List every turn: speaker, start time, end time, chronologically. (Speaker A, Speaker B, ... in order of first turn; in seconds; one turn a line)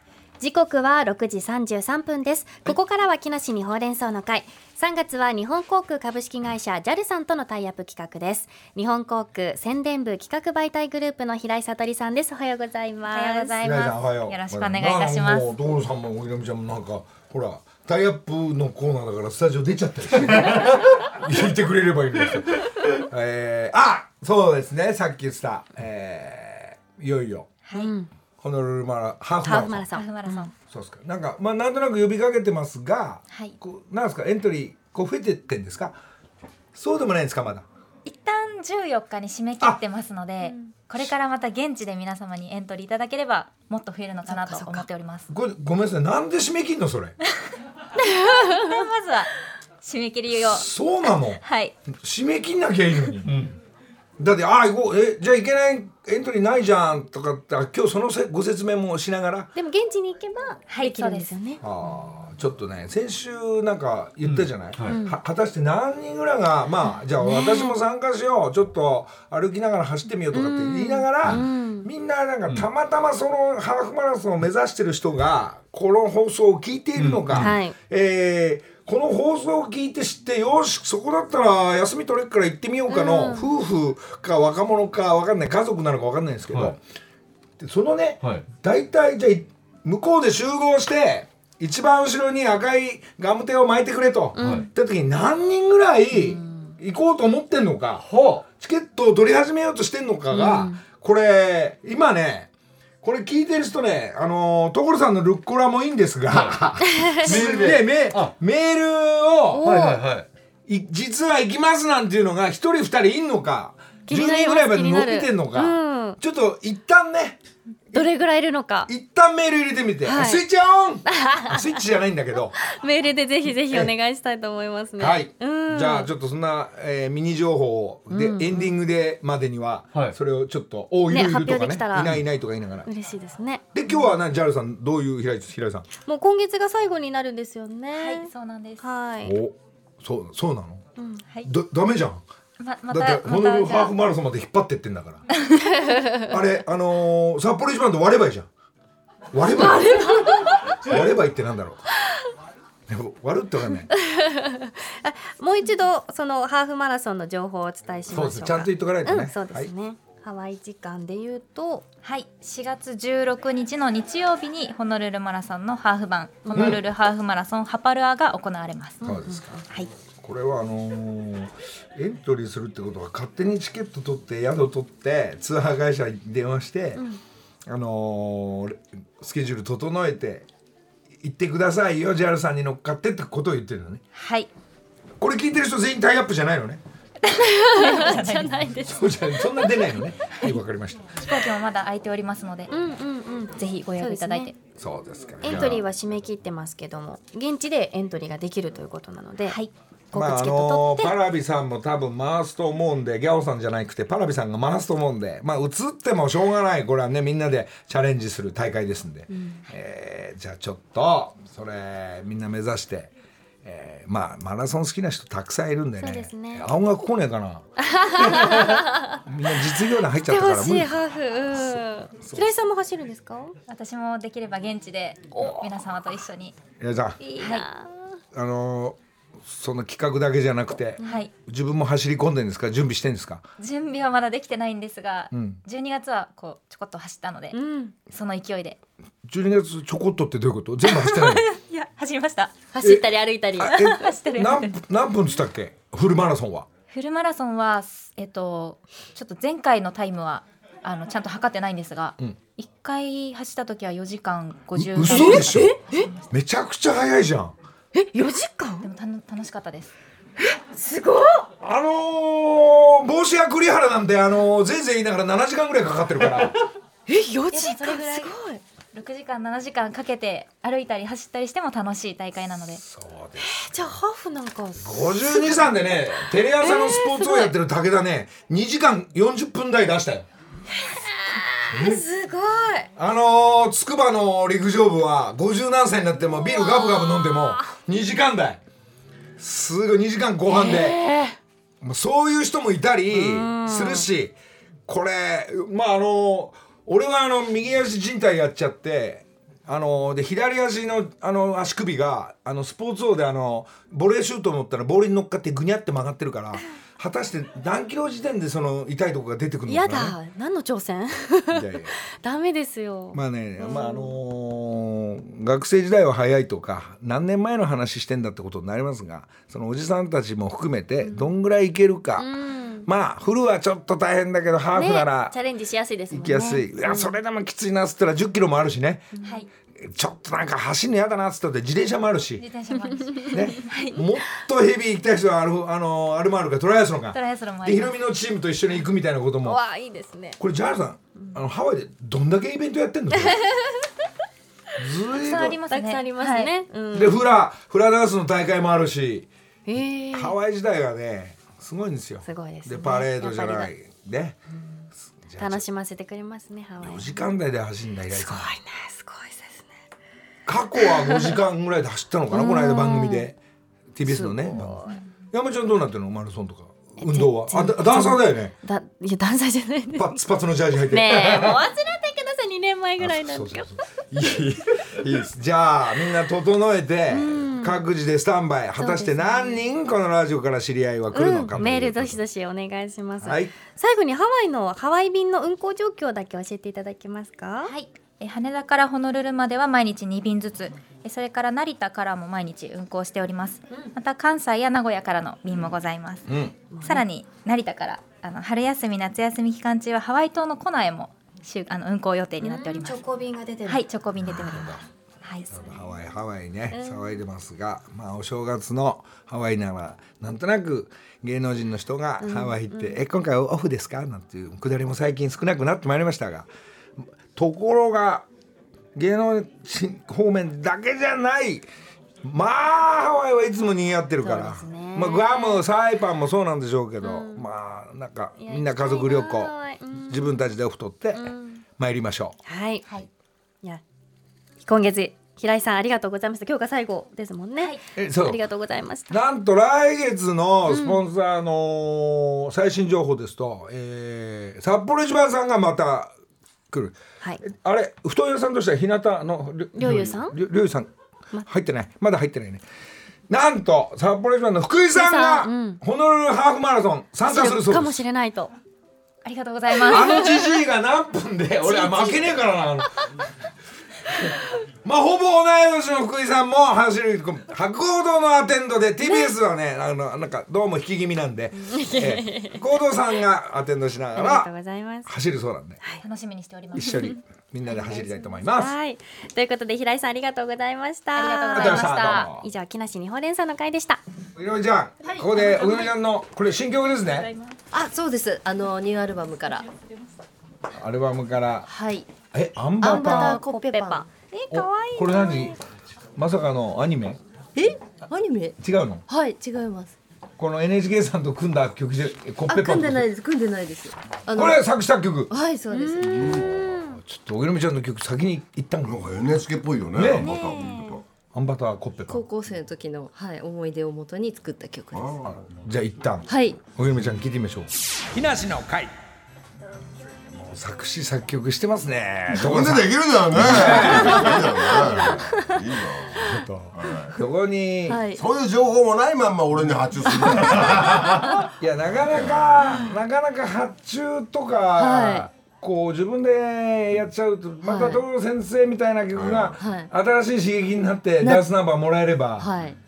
Speaker A: 0.4-13.7
Speaker B: 13.1-15.5
Speaker C: 13.6-27.5
Speaker B: 27.7-27.9
Speaker A: 27.8-28.1
Speaker C: 28.4-29.9
Speaker A: 29.4-30.5
Speaker B: 29.9-30.5
Speaker C: 30.7-36.0
Speaker B: 33.3-33.6
Speaker C: 36.8-37.6
Speaker B: 38.0-45.3
Speaker A: 40.4-40.7
Speaker A: 44.3-44.9
Speaker C: 45.3-47.1
Speaker B: 48.0-49.3
Speaker A: 48.2-48.8
Speaker B: 49.8-51.8
Speaker C: 50.5-53.5
Speaker C: 54.2-59.5
Speaker A: 59.5-61.6
Speaker B: 60.7-61.3
Speaker C: 61.6-86.8
Speaker D: 64.2-65.0
Speaker A: 64.8-65.2
Speaker A: 67.2-67.8
Speaker A: 70.3-71.9
Speaker D: 77.0-77.5
Speaker A: 77.3-77.7
Speaker A: 82.9-83.5
Speaker C: 87.6-102.5
Speaker A: 94.4-94.7
Speaker D: 94.4-94.7
Speaker A: 96.1-96.8
Speaker D: 98.1-98.4
Speaker A: 100.3-100.8
Speaker C: 103.0-109.7
Speaker A: 106.9-107.5
Speaker D: 107.2-108.3
Speaker A: 109.5-110.0
Speaker D: 109.7-110.2
Speaker C: 110.7-117.4
Speaker A: 114.1-116.2
Speaker A: 117.9-118.9
Speaker C: 118.9-122.6
Speaker A: 120.0-120.4
Speaker A: 121.1-121.8
Speaker A: 122.6-126.1
Speaker C: 125.0-132.9
Speaker A: 128.1-128.8
Speaker A: 131.1-132.2
Speaker A: 132.9-134.1
Speaker C: 133.7-135.9
Speaker A: 136.1-139.4
Speaker B: 137.9-138.8
Speaker C: 139.2-140.8
Speaker A: 141.0-141.2
Speaker C: 141.4-142.2
Speaker B: 142.6-143.9
Speaker C: 142.9-145.2
Speaker A: 145.8-146.2
Speaker C: 146.3-148.5
Speaker C: 149.3-151.8
Speaker A: 149.5-150.8
Speaker C: 152.9-153.9
Speaker A: 154.0-161.8
Speaker C: 158.1-159.7
Speaker B: 162.0-169.0
Speaker C: 166.5-166.8
Speaker A: 169.0-169.6
Speaker C: 169.0-169.6
Speaker C: 170.2-177.0
Speaker C: 177.7-180.5
Speaker C: 181.2-184.0
Speaker B: 184.1-184.5
Speaker C: 185.2-186.8
Speaker A: 187.3-189.4
Speaker B: 187.4-188.8
Speaker C: 188.8-191.1
Speaker B: 191.2-192.7
Speaker A: 192.7-194.5
Speaker B: 193.6-194.6
Speaker C: 194.8-195.8
Speaker A: 195.4-199.6
Speaker B: 199.5-199.7
Speaker A: 200.1-201.2
Speaker C: 200.1-213.1
Speaker A: 209.3-209.6
Speaker C: 213.7-217.6
Speaker A: 216.0-216.7
Speaker A: 217.8-219.2
Speaker C: 218.2-221.0
Speaker A: 220.2-223.6
Speaker C: 221.5-222.5
Speaker B: 223.7-226.6
Speaker C: 226.8-227.2
Speaker A: 227.2-228.2
Speaker B: 227.4-227.7
Speaker C: 228.3-233.4
Speaker A: 231.0-231.3
Speaker B: 231.0-231.3
Speaker B: 233.6-238.8
Speaker C: 235.3-235.6
Speaker A: 237.5-238.0
Speaker C: 239.3-241.4
Speaker A: 241.0-241.4
Speaker B: 241.4-242.5
Speaker A: 242.7-244.2
Speaker C: 243.6-246.7
Speaker B: 244.0-244.7
Speaker B: 246.9-256.3
Speaker C: 254.8-255.8
Speaker A: 255.1-256.1
Speaker C: 256.3-257.5
Speaker A: 257.9-258.9
Speaker B: 258.8-259.9
Speaker A: 260.8-261.5
Speaker C: 261.6-266.6
Speaker A: 267.1-268.6
Speaker B: 267.5-268.4
Speaker B: 268.9-272.8
Speaker C: 272.8-273.6
Speaker A: 273.4-275.7
Speaker C: 274.8-280.3
Speaker A: 276.6-277.5
Speaker A: 280.8-282.9
Speaker C: 281.7-282.0
Speaker C: 283.0-288.6
Speaker A: 286.2-287.6
Speaker C: 289.4-291.0
Speaker A: 290.5-291.4
Speaker C: 291.8-294.4
Speaker A: 293.1-294.1
Speaker C: 294.9-310.1
Speaker A: 309.7-314.2
Speaker C: 311.5-311.9
Speaker C: 313.1-322.3
Speaker A: 321.0-321.3
Speaker A: 322.2-322.9
Speaker C: 322.9-325.3
Speaker A: 324.8-327.2
Speaker C: 326.1-329.1
Speaker A: 329.1-329.4
Speaker B: 329.2-329.5
Speaker C: 329.8-332.4
Speaker B: 332.4-334.0
Speaker A: 333.0-334.0
Speaker C: 333.3-339.6
Speaker B: 337.1-337.9
Speaker A: 339.4-340.4
Speaker C: 340.4-343.5
Speaker C: 344.8-345.6
Speaker B: 345.2-346.5
Speaker A: 345.3-347.2
Speaker C: 346.9-349.3
Speaker A: 349.7-350.4
Speaker C: 350.1-354.4
Speaker A: 352.2-353.7
Speaker C: 355.2-355.6
Speaker A: 355.4-357.3
Speaker C: 356.8-358.5
Speaker A: 358.1-359.7
Speaker C: 360.5-363.4
Speaker A: 362.3-363.3
Speaker C: 363.9-364.8
Speaker A: 364.1-365.0
Speaker C: 365.3-368.5
Speaker A: 367.0-370.2
Speaker C: 370.0-371.6
Speaker A: 370.9-373.7
Speaker C: 373.0-382.2
Speaker A: 377.1-377.9
Speaker A: 378.8-379.7
Speaker A: 381.1-387.7
Speaker C: 383.2-383.5
Speaker B: 387.6-396.3
Speaker C: 396.3-396.5
Speaker A: 396.7-397.1
Speaker B: 396.8-403.0
Speaker A: 402.4-403.9
Speaker B: 403.7-405.8
Speaker C: 404.2-404.8
Speaker C: 405.5-416.5
Speaker A: 406.7-407.2
Speaker A: 412.2-413.0
Speaker C: 417.4-418.2
Speaker C: 418.9-421.7
Speaker C: 422.2-432.4
Speaker A: 424.2-425.6
Speaker A: 427.0-427.5
Speaker A: 428.4-430.4
Speaker A: 431.1-431.6
Speaker A: 432.5-432.9
Speaker A: 434.6-439.2
Speaker C: 437.9-438.4
Speaker C: 439.1-446.1
Speaker A: 440.7-441.0
Speaker C: 446.7-450.9
Speaker A: 449.8-450.4
Speaker C: 451.5-452.6
Speaker C: 453.3-458.0
Speaker A: 454.9-455.8
Speaker A: 457.3-458.5
Speaker B: 459.2-460.4
Speaker C: 459.8-463.0
Speaker A: 459.9-460.3
Speaker A: 461.6-462.3
Speaker C: 464.8-474.5
Speaker A: 471.6-472.6
Speaker A: 474.1-475.1
Speaker C: 475.1-475.8
Speaker B: 476.0-477.1
Speaker C: 476.8-478.7
Speaker A: 477.7-484.0
Speaker B: 481.1-482.3
Speaker C: 481.5-482.5
Speaker C: 484.4-487.3
Speaker A: 485.4-485.9
Speaker E: 487.7-489.7
Speaker C: 490.8-491.7
Speaker E: 491.7-492.1
Speaker C: 492.3-493.4
Speaker E: 492.8-494.1
Speaker A: 492.9-495.6
Speaker C: 494.5-495.6
Speaker C: 496.2-497.2
Speaker E: 497.6-500.0
Speaker C: 498.6-499.0
Speaker C: 500.4-503.1
Speaker E: 502.5-504.6
Speaker C: 504.3-505.3
Speaker E: 505.3-506.5
Speaker A: 505.7-507.0
Speaker C: 507.0-509.1
Speaker F: 508.9-511.0
Speaker C: 509.9-510.3
Speaker A: 510.2-511.0
Speaker C: 511.3-512.2
Speaker E: 512.1-515.2
Speaker F: 514.9-515.5
Speaker C: 515.3-518.9
Speaker E: 516.3-516.6
Speaker C: 520.4-524.4
Speaker F: 522.3-527.2
Speaker E: 523.7-524.5
Speaker A: 524.3-524.9
Speaker C: 526.2-528.0
Speaker E: 527.9-528.2
Speaker F: 528.1-531.4
Speaker C: 531.4-542.5
Speaker F: 531.9-532.8
Speaker E: 534.8-535.3
Speaker E: 537.6-538.0
Speaker F: 539.1-539.6
Speaker E: 539.6-539.9
Speaker E: 541.2-541.5
Speaker E: 542.4-542.8